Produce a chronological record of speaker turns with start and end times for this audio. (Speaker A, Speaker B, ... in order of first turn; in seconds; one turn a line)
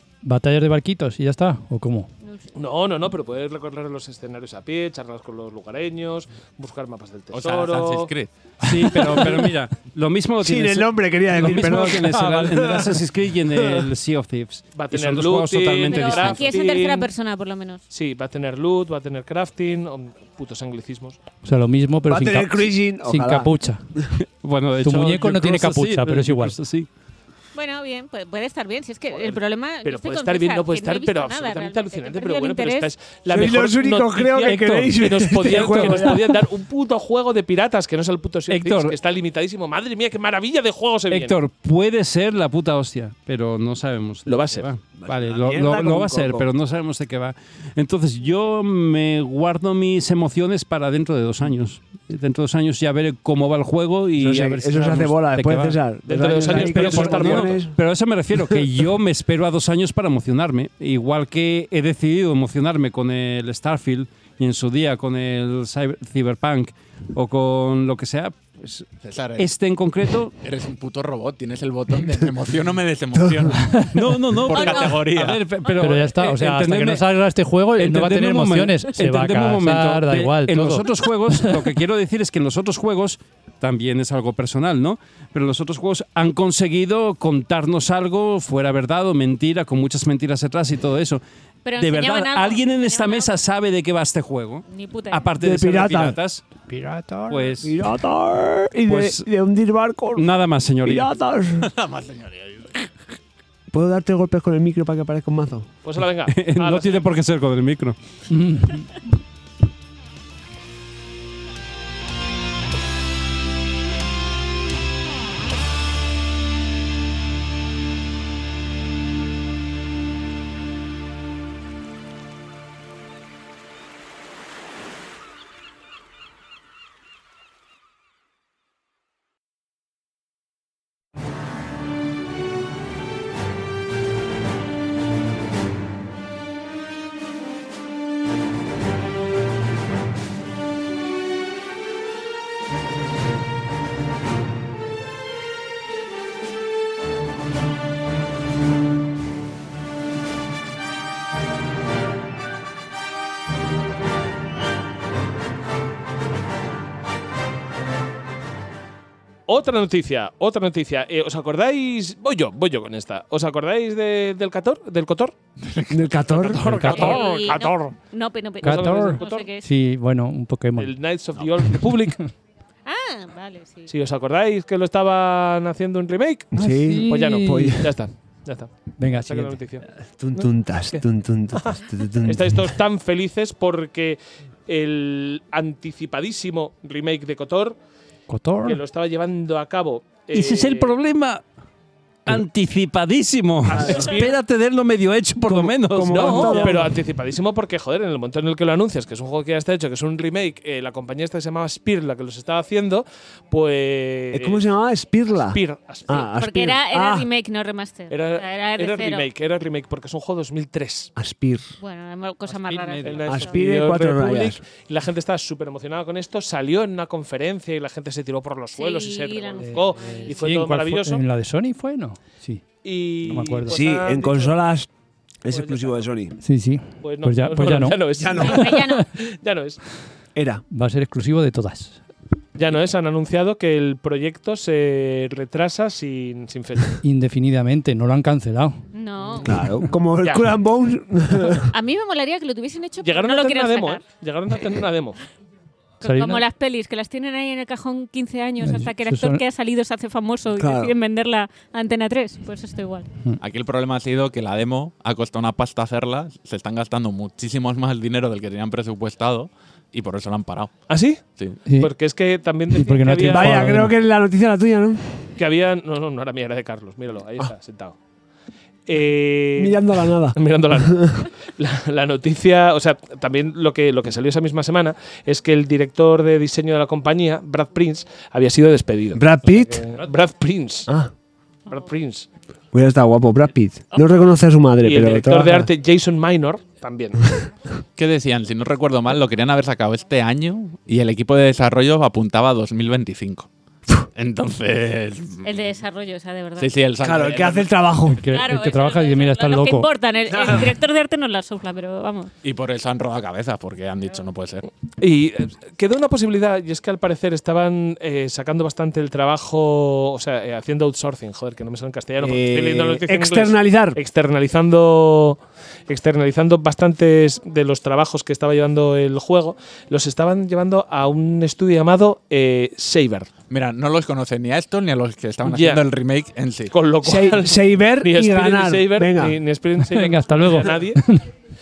Speaker A: 0.2-2.1
Speaker B: 2.2-2.5
Speaker C: 2.5-8.1
Speaker D: 7.3-8.3
Speaker E: 8.6-16.6
Speaker F: 8.7-9.5
Speaker F: 10.4-13.0
Speaker F: 13.6-13.8
Speaker C: 14.7-17.1
Speaker B: 15.9-17.8
Speaker C: 17.9-21.2
Speaker A: 21.4-23.8
Speaker F: 22.1-23.5
Speaker E: 24.1-26.9
Speaker A: 24.8-26.6
Speaker B: 27.5-32.9
Speaker C: 29.1-41.4
Speaker F: 33.3-36.4
Speaker E: 34.5-34.9
Speaker E: 35.4-36.2
Speaker E: 38.5-39.0
Speaker E: 41.1-70.3
Speaker C: 44.2-44.7
Speaker F: 45.0-46.4
Speaker F: 54.2-57.8
Speaker C: 56.1-57.6
Speaker D: 69.0-69.5
Speaker D: 70.4-75.4
Speaker F: 73.2-73.5
Speaker E: 73.9-91.2
Speaker B: 74.5-75.0
Speaker A: 75.7-81.7
Speaker B: 91.6-93.3
Speaker E: 91.8-96.5
Speaker B: 94.7-95.3
Speaker F: 95.4-96.2
Speaker A: 96.7-97.6
Speaker E: 97.3-97.7
Speaker F: 97.6-100.3
Speaker E: 98.9-99.3
Speaker E: 100.1-101.1
Speaker F: 100.8-101.7
Speaker D: 101.6-102.9
Speaker F: 103.7-105.7
Speaker C: 105.8-107.0
Speaker E: 106.2-108.0
Speaker A: 108.3-108.9
Speaker C: 159.5-165.3
Speaker D: 165.6-166.9
Speaker F: 165.9-166.7
Speaker C: 166.3-167.9
Speaker A: 166.6-167.5
Speaker B: 166.9-169.7
Speaker C: 168.6-169.5
Speaker A: 168.6-171.0
Speaker C: 170.8-172.2
Speaker B: 172.8-173.9
Speaker C: 173.9-181.0
Speaker F: 176.5-178.0
Speaker A: 176.6-177.7
Speaker A: 179.0-179.6
Speaker F: 179.9-182.7
Speaker C: 181.6-187.8
Speaker A: 188.3-188.8
Speaker C: 188.6-190.9
Speaker E: 190.3-191.4
Speaker E: 192.2-196.8
Speaker C: 193.7-194.4
Speaker F: 193.8-194.1
Speaker F: 195.4-196.9
Speaker C: 196.1-204.6
Speaker F: 204.3-207.3
Speaker C: 205.3-206.3
Speaker B: 206.3-209.2
Speaker C: 208.1-211.1
Speaker F: 211.2-211.7
Speaker B: 211.8-213.6
Speaker A: 212.5-213.5
Speaker C: 213.0-221.2
Speaker F: 213.3-214.6
Speaker B: 218.7-220.4
Speaker A: 219.6-222.7
Speaker C: 222.8-224.6
Speaker A: 223.2-223.8
Speaker F: 223.7-224.9
Speaker F: 225.4-226.4
Speaker C: 225.5-226.1
Speaker A: 226.4-229.0
Speaker C: 227.0-229.8
Speaker F: 228.2-228.7
Speaker B: 228.3-229.0
Speaker F: 230.3-230.6
Speaker A: 230.7-232.0
Speaker C: 232.5-237.0
Speaker A: 237.0-238.8
Speaker B: 238.9-239.5
Speaker F: 239.4-241.7
Speaker C: 240.2-240.5
Speaker B: 241.7-244.0
Speaker C: 243.0-245.2
Speaker B: 246.0-253.1
Speaker A: 246.0-246.4
Speaker A: 248.6-249.4
Speaker F: 250.6-250.9
Speaker D: 253.4-261.6
Speaker C: 260.9-261.2
Speaker A: 261.6-261.9
Speaker C: 261.8-263.8
Speaker A: 262.7-263.9
Speaker F: 263.3-265.3
Speaker C: 265.4-268.0
Speaker C: 268.9-280.9
Speaker F: 269.6-271.2
Speaker F: 279.1-279.8
Speaker C: 281.7-282.3
Speaker F: 282.7-285.7
Speaker C: 284.8-287.4
Speaker D: 288.0-293.5
Speaker D: 294.1-295.6
Speaker B: 295.4-296.7
Speaker D: 296.6-297.8
Speaker F: 297.0-298.2
Speaker A: 298.1-299.9
Speaker B: 298.3-302.3
Speaker F: 300.3-300.7
Speaker D: 302.4-304.7
Speaker C: 305.0-323.3
Speaker F: 312.2-314.0
Speaker D: 323.5-326.7
Speaker C: 325.4-325.8
Speaker C: 326.7-331.0
Speaker F: 327.0-329.4
Speaker A: 329.8-331.2